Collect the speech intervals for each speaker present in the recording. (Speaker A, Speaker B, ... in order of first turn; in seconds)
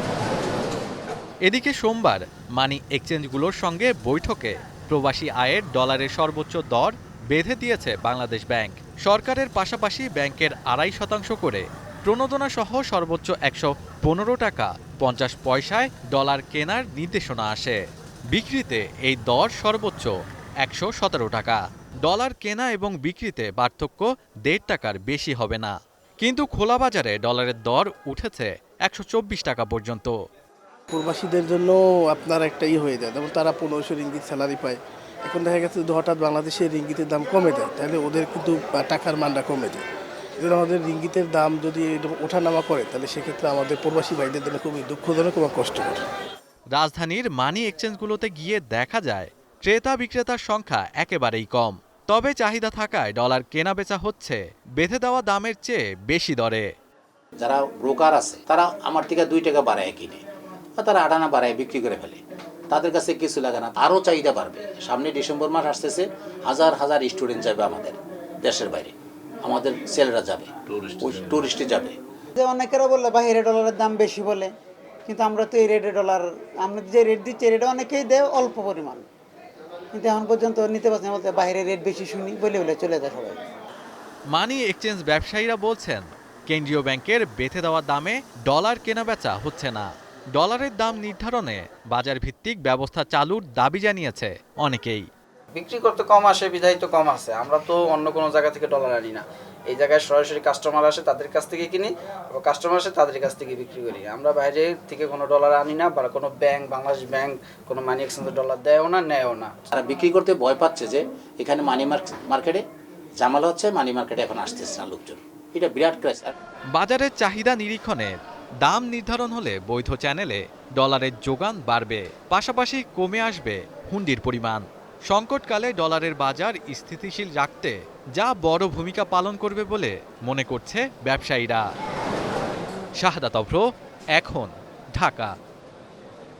Speaker A: 1.4-17.8, 18.3-30.1, 46.7-56.7, 84.3-95.1, 116.7-131.6, 133.0-135.3
Speaker B: 30.9-39.9, 40.4-46.0
Speaker C: 57.4-60.2, 60.8-72.0, 109.7-112.6, 113.2-116.3
Speaker D: 72.4-74.5, 75.0-79.1, 79.9-83.4
Speaker E: 95.5-109.5